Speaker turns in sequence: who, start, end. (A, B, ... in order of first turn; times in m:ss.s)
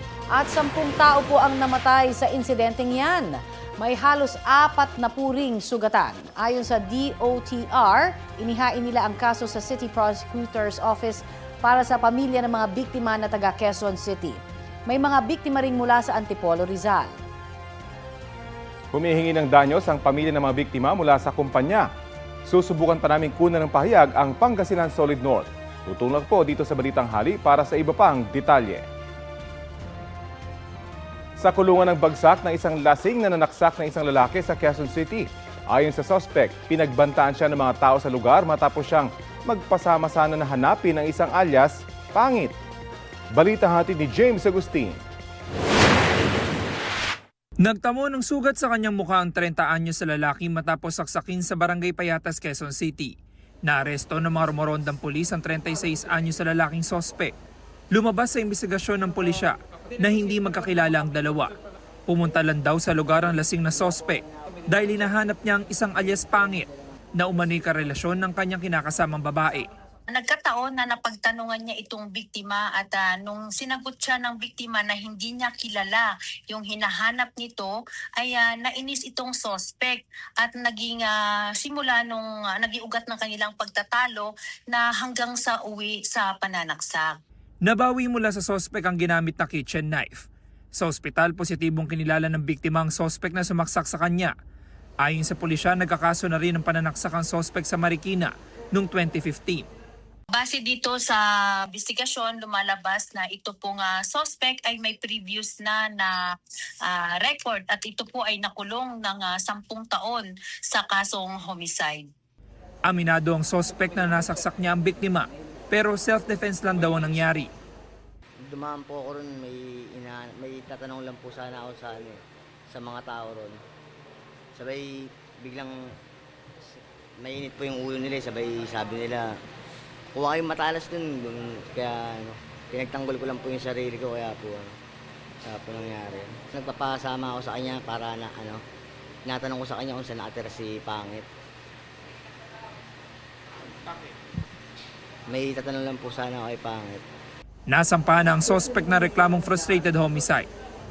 0:00.3-0:17.1 A
0:18.9-0:21.9 B
0:22.4-0:28.8 B
0:31.4-0:42.5 B
0:43.3-0:45.0 B
0:47.6-0:53.1 C
0:53.6-0:57.3 C
0:57.9-1:01.5 C
1:02.1-1:09.7 C
1:10.1-1:27.2 D
1:27.6-1:34.3 C
1:35.0-1:39.7 C
1:40.3-1:46.2 D
1:46.8-1:52.1 D
1:52.8-1:57.5 C
1:58.4-2:02.2 E
2:02.7-2:03.6 E
2:04.5-2:05.9 E
2:07.2-2:09.3 E
2:10.1-2:14.7 E
2:15.4-2:18.6 E
2:19.2-2:21.3 E
2:25.3-2:27.0 E
2:27.7-2:30.5 C